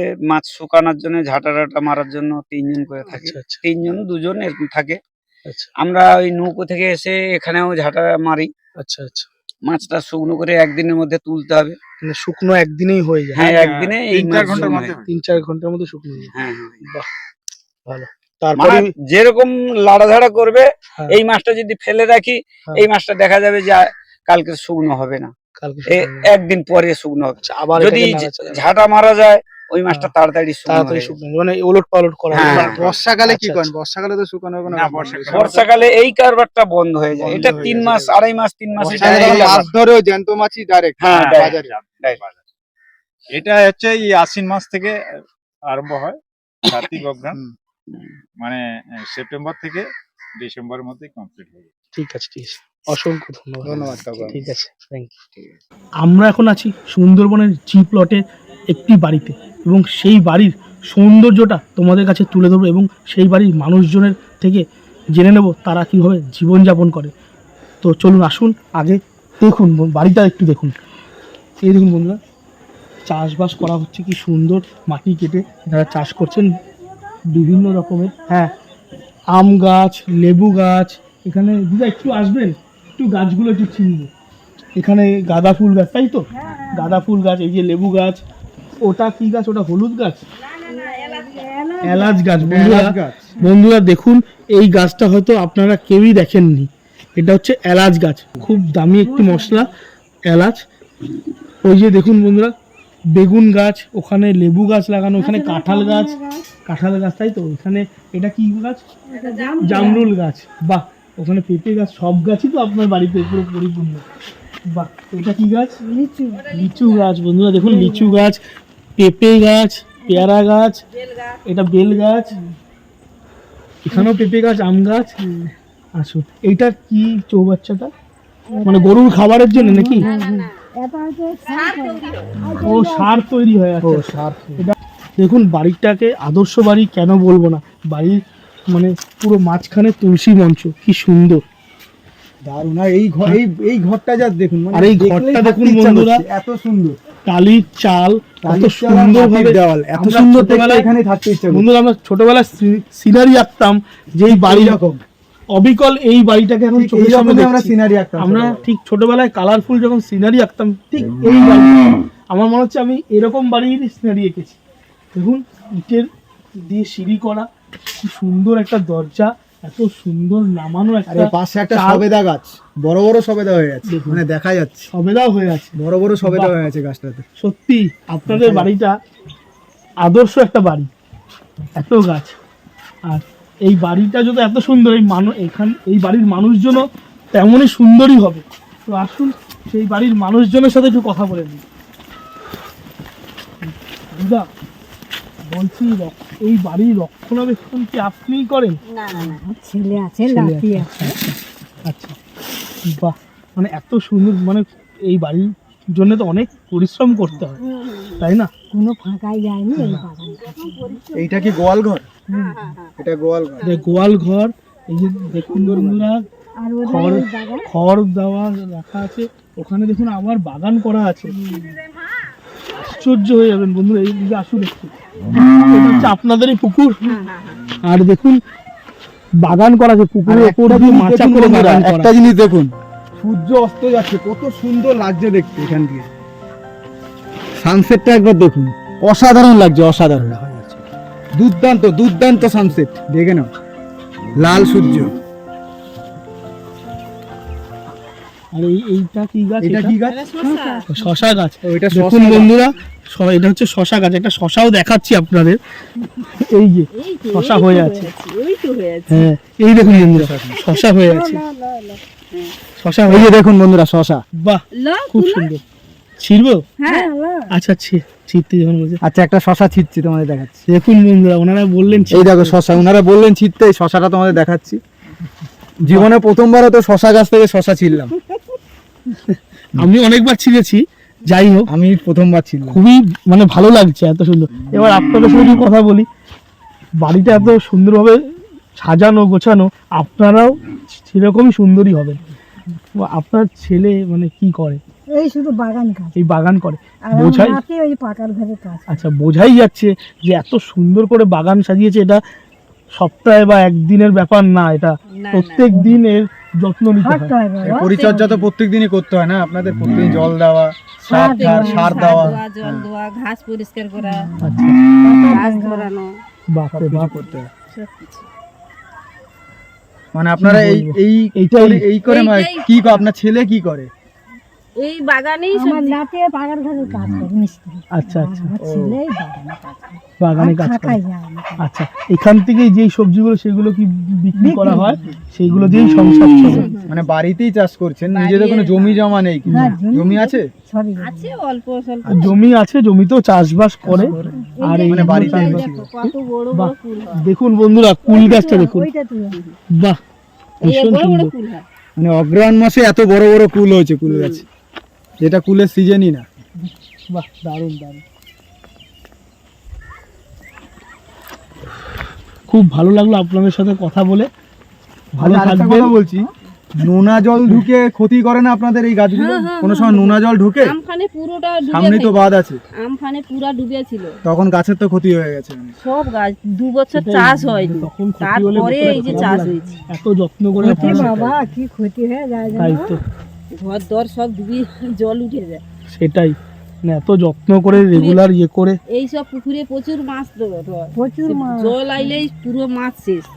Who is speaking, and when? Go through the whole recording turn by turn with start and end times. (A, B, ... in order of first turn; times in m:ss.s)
0:00.3-0:05.0 A
0:03.1-0:03.6 B
0:05.8-0:08.5 A
0:08.8-0:09.3 B
0:09.7-0:11.8 A
0:12.0-0:13.7 B
0:13.4-0:15.0 A
0:13.5-0:15.2 C
0:15.1-0:16.3 B
0:16.3-0:16.8 A
0:17.9-0:18.9 B
0:18.6-0:25.3 A
0:25.6-0:26.3 B
0:25.9-0:31.1 A
0:27.4-0:28.6 B
0:30.7-0:33.7 B
0:32.3-0:32.8 A
0:32.4-0:33.1 C
0:32.5-0:35.6 D
0:34.7-0:35.7 C
0:35.3-0:39.7 A
0:37.2-0:38.2 D
0:37.2-0:37.8 C
0:38.8-0:39.7 C
0:38.8-0:41.7 D
0:41.0-0:42.2 A
0:41.1-0:42.4 C
0:43.3-0:45.0 C
0:45.7-0:47.4 C
0:49.1-0:49.9 C
0:50.4-0:51.7 C
0:52.0-0:55.2 B
0:53.7-0:54.5 D
0:56.0-1:07.1 B
1:07.8-1:10.8 B
1:11.6-1:12.2 B
1:13.1-1:16.5 B
1:17.3-1:18.5 B
1:17.6-1:18.0 E
1:19.3-1:24.1 B
1:24.8-1:28.2 B
1:26.3-1:27.0 E
1:28.8-1:30.3 B
1:30.4-1:31.6 F
1:30.6-1:32.3 E
1:31.8-1:39.7 B
1:32.4-1:33.3 D
1:39.0-1:39.7 E
1:40.3-1:40.6 B
1:41.6-1:42.5 B
1:43.1-1:46.2 B
1:45.2-1:46.5 E
1:46.7-1:48.8 B
1:49.1-1:50.1 F
1:49.1-1:50.1 E
1:49.6-1:54.0 B
1:54.7-1:55.8 B
1:55.8-1:56.6 E
1:56.3-1:57.2 F
1:56.5-1:58.4 B
1:57.5-1:58.2 E
1:59.0-2:00.8 B
2:00.9-2:01.4 F
2:01.5-2:02.4 B
2:03.9-2:05.2 B
2:03.9-2:04.2 E
2:05.2-2:05.5 E
2:06.0-2:07.9 B
2:08.5-2:09.0 E
2:08.5-2:08.9 F
2:08.6-2:10.1 B
2:09.5-2:13.3 E
2:10.0-2:10.5 F
2:11.4-2:12.4 F
2:12.6-2:21.4 B
2:13.8-2:14.6 D
2:22.4-2:27.0 D
2:24.7-2:26.2 B
2:27.3-2:30.9 B
2:28.4-2:31.7 D
2:31.5-2:34.8 B
2:34.3-2:35.0 D
2:35.6-2:44.6 B
2:36.8-2:38.6 D
2:45.1-2:52.1 B
2:51.1-2:54.9 D
2:53.9-2:54.2 B
2:54.9-2:56.6 B
2:55.8-2:57.2 D
2:57.4-2:59.0 B
2:58.3-2:58.7 D
3:00.0-3:00.9 B
3:01.8-3:02.4 B
3:03.1-3:11.6 B
3:13.7-3:14.5 B
3:15.5-3:18.8 B
3:18.9-3:19.4 F
3:19.1-3:21.2 E
3:20.3-3:22.2 B
3:22.9-3:27.6 B
3:27.6-3:28.3 F
3:28.2-3:28.5 B
3:28.7-3:31.4 E
3:30.2-3:31.5 F
3:31.1-3:32.1 D
3:32.3-3:32.8 E
3:32.3-3:32.9 F
3:33.0-3:33.7 D
3:33.6-3:36.2 B
3:35.6-3:36.0 D
3:36.6-3:37.7 E
3:36.8-3:41.4 B
3:41.3-3:41.7 E
3:42.8-3:47.1 B
3:47.0-3:47.6 F
3:47.8-3:48.4 B
3:49.4-3:52.1 B
3:50.3-3:56.1 D
3:57.6-4:00.4 D
4:00.4-4:00.7 B
4:01.4-4:03.5 D
4:04.4-4:05.1 D
4:08.5-4:09.9 B
4:09.6-4:10.3 D
4:10.0-4:11.0 F
4:10.4-4:11.3 E
4:10.9-4:15.6 B
4:11.6-4:12.5 D
4:16.4-4:18.1 B
4:17.0-4:19.3 F
4:19.1-4:21.4 B
4:19.8-4:20.5 D
4:20.5-4:22.5 F
4:21.0-4:21.9 E
4:22.8-4:23.3 B
4:23.1-4:24.2 D
4:24.4-4:25.6 B
4:24.8-4:25.5 F
4:26.2-4:26.7 B
4:26.8-4:27.1 F
4:26.9-4:27.5 E
4:27.5-4:29.0 B
4:29.0-4:30.6 D
4:30.7-4:32.6 B
4:32.1-4:34.8 D
4:35.8-4:38.1 D
4:39.3-4:41.7 B
4:41.7-4:42.8 D
4:42.7-4:46.1 B
4:47.0-4:48.2 B
4:48.8-4:52.2 B
4:53.0-4:54.8 B
4:55.1-4:56.2 E
4:56.2-4:57.6 B
4:57.1-4:59.1 E
4:58.9-5:02.2 B
5:03.0-5:07.3 B
5:05.2-5:05.7 F
5:05.7-5:06.0 E
5:07.0-5:08.5 E
5:07.6-5:12.9 D
5:11.0-5:12.4 E
5:11.1-5:14.3 F
5:11.1-5:11.4 B
5:14.0-5:14.3 E
5:14.4-5:14.8 B
5:15.0-5:15.9 E
5:15.3-5:16.1 F
5:16.5-5:17.2 B
5:16.7-5:17.5 D
5:17.7-5:18.3 F
5:20.1-5:23.9 D
5:20.4-5:21.8 B
5:22.0-5:23.1 F
5:24.8-5:26.0 F
5:25.5-5:31.6 E
5:27.9-5:28.5 B
5:28.6-5:29.0 D
5:30.2-5:31.0 B
5:31.6-5:36.7 B
5:34.4-5:35.2 E
5:36.5-5:37.0 F
5:36.9-5:40.5 D
5:38.1-5:39.8 F
5:39.5-5:41.4 E
5:41.0-5:42.4 F
5:42.1-5:48.9 B
5:43.9-5:45.9 D
5:43.9-5:45.4 E
5:44.6-5:47.2 F
5:48.1-5:49.4 E
5:50.6-5:51.3 B
5:50.6-5:51.6 F
5:52.0-5:54.4 D
5:54.1-5:54.4 F
5:55.2-5:56.2 D
5:57.1-5:58.0 B
6:02.5-6:04.3 B
6:05.2-6:05.9 B
6:05.2-6:10.8 D
6:09.1-6:14.2 F
6:11.7-6:12.6 D
6:14.2-6:15.7 D
6:15.8-6:19.8 F
6:16.9-6:21.3 B
6:18.9-6:19.3 D
6:19.5-6:19.8 E
6:20.6-6:23.0 E
6:20.7-6:21.2 D
6:22.6-6:23.0 B
6:23.6-6:25.6 F
6:25.9-6:28.8 B
6:27.7-6:28.2 F
6:28.9-6:33.3 F
6:31.0-6:32.2 E